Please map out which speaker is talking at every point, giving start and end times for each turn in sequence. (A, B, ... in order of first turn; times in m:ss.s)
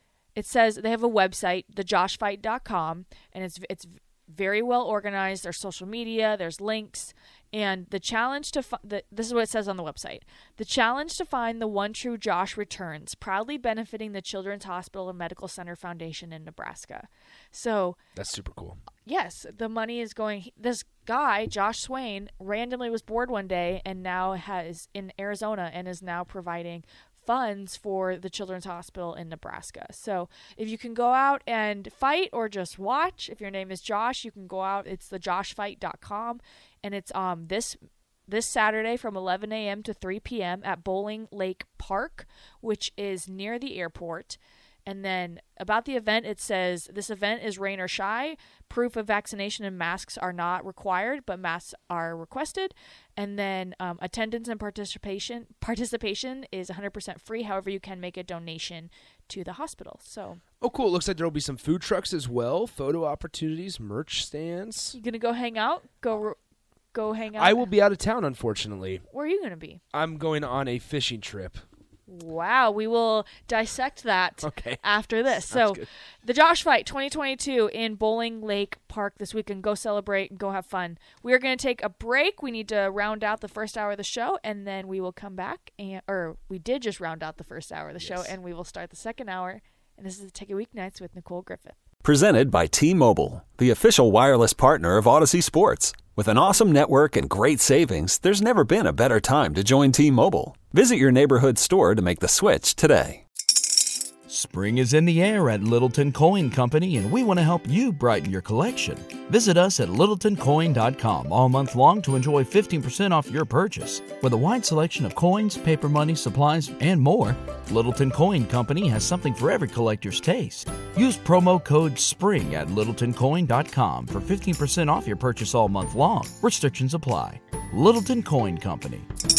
0:00.3-0:18.0 A
0:18.1-0:18.8 B
0:19.0-1:00.4 A
1:00.6-1:05.0 B
1:04.9-1:06.4 A
1:06.9-1:07.7 A
1:07.4-1:09.0 B
1:09.1-1:09.8 A
1:09.9-1:11.6 B
1:12.1-1:31.8 A
1:14.4-1:14.8 B
1:15.5-1:15.9 B
1:28.0-1:28.3 B
1:32.0-1:43.2 C
1:44.3-2:09.1 D